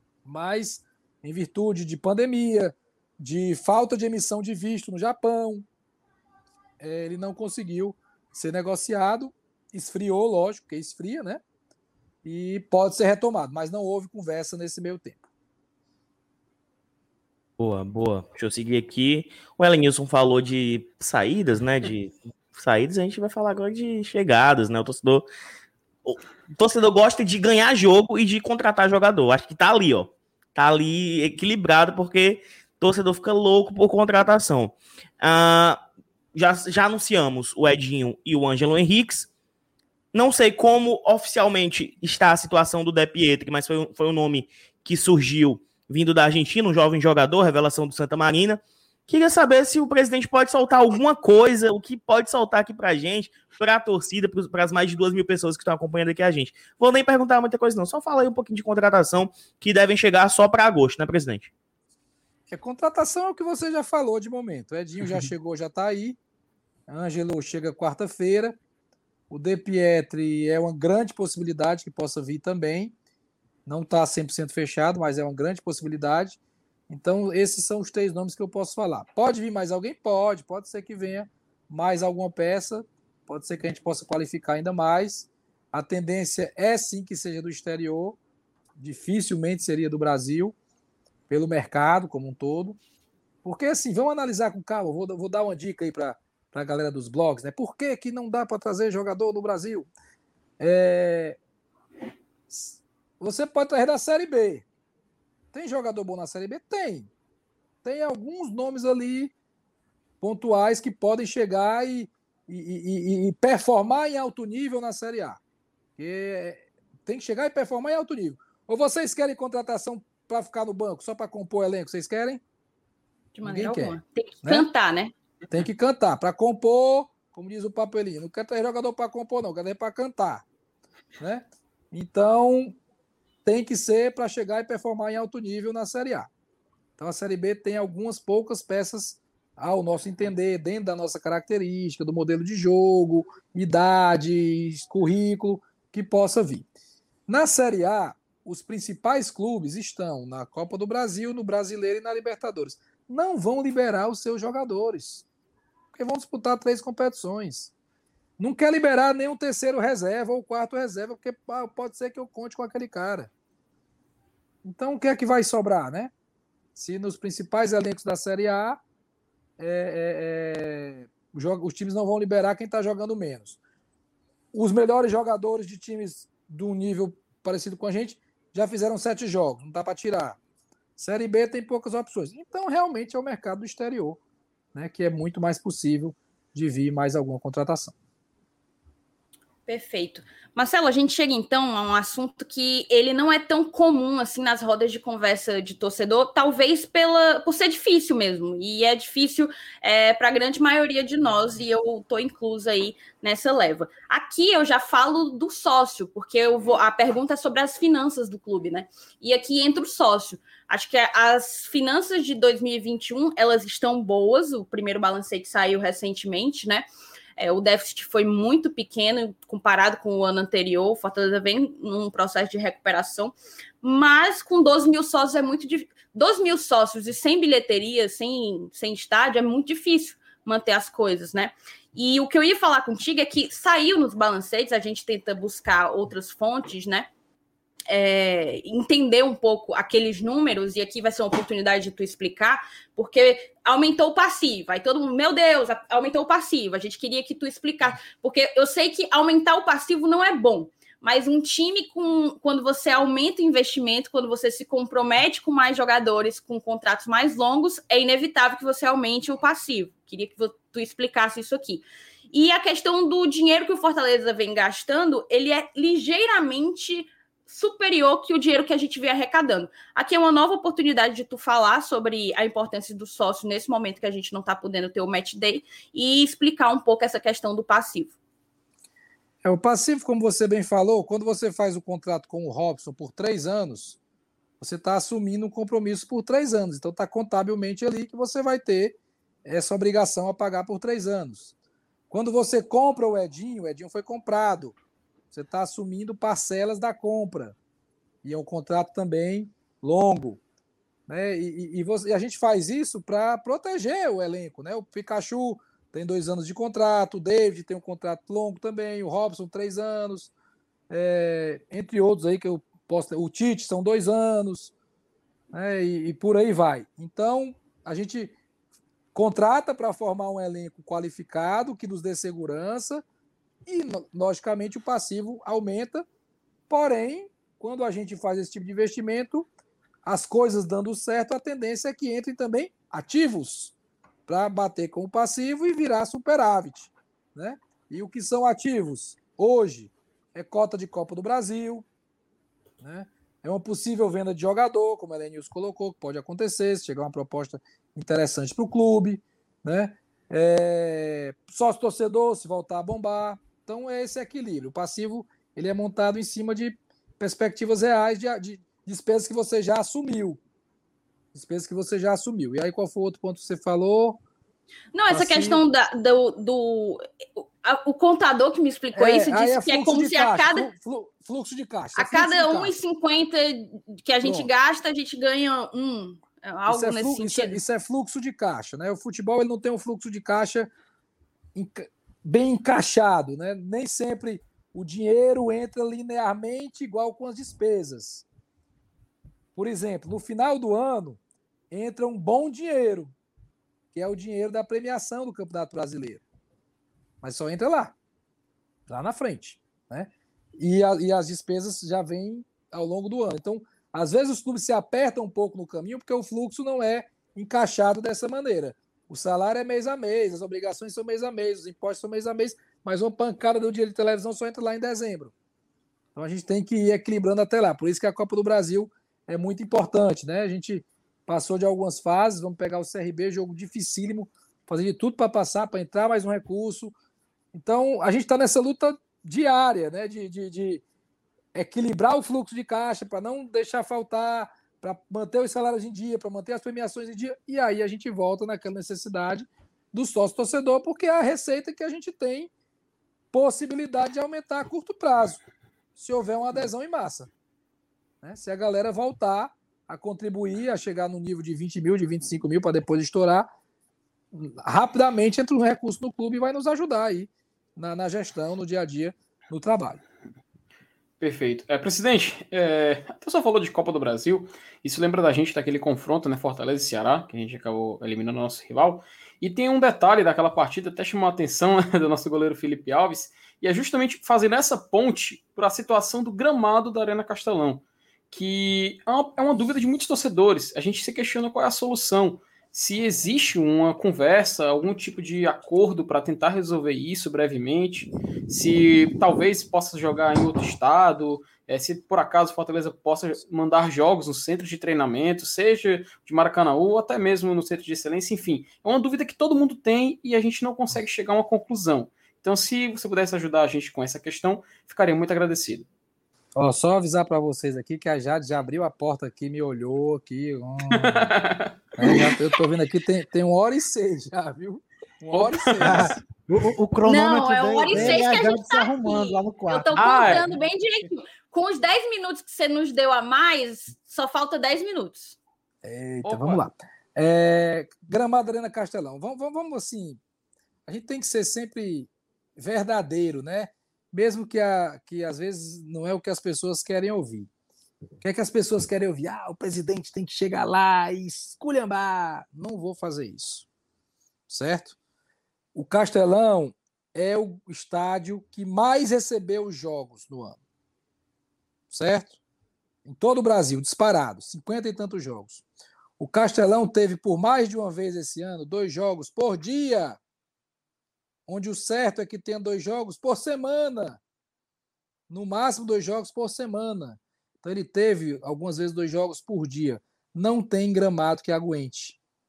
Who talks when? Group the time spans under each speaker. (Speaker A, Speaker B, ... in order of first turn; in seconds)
Speaker A: 0.2-5.7, 6.8-11.4, 12.2-15.2, 62.5-66.2, 66.9-68.6, 69.3-72.9, 73.7-88.2, 88.8-90.5, 91.3-92.8, 93.4-99.9, 100.6-101.4, 102.5-104.7, 105.5-107.1, 107.8-109.3, 110.2-115.4, 116.0-122.4, 123.4-124.7, 125.5-130.5, 131.2-132.8, 133.4-136.3, 137.0-146.7, 147.3-155.2, 155.9-157.7, 158.4-163.3, 164.6-166.1, 166.8-168.8, 169.6-173.6, 174.5-180.4, 181.0-184.2, 184.7-188.0, 279.4-284.0, 284.6-291.5, 292.1-294.8, 295.3-297.6, 298.2-300.4, 301.1-310.3, 310.9-314.7, 315.5-318.4, 319.1-323.0, 323.7-326.1, 326.7-329.5, 330.1-333.7, 334.3-341.9, 342.8-360.4, 361.3-364.2, 365.1-365.6, 368.9-372.7, 374.2-374.5, 376.7-380.7, 381.6-388.3, 389.6-391.2, 391.7-393.1, 393.9-396.2, 397.2-397.9, 398.9-415.3, 416.1-426.9, 427.5-430.8, 431.5-442.5, 443.3-445.4, 446.0-447.3, 448.2-453.5, 454.3-460.0, 506.6-511.3, 512.0-516.2, 525.8-530.2, 530.9-537.5, 538.2-543.7, 544.5-545.0, 545.8-550.6, 551.9-552.4, 553.0-555.6, 556.2-560.2, 561.5-564.2, 565.3-572.2
Speaker B: 17.6-25.3, 26.1-35.8, 36.3-39.3, 40.1-61.5
Speaker C: 123.3-125.1, 189.7-216.8, 217.4-237.1, 237.9-278.1, 364.9-370.7, 372.0-377.6, 517.0-525.4
Speaker D: 461.2-505.9, 510.9-512.4, 515.3-516.0, 520.0-520.5, 526.2-526.6
Speaker E: 515.8-520.6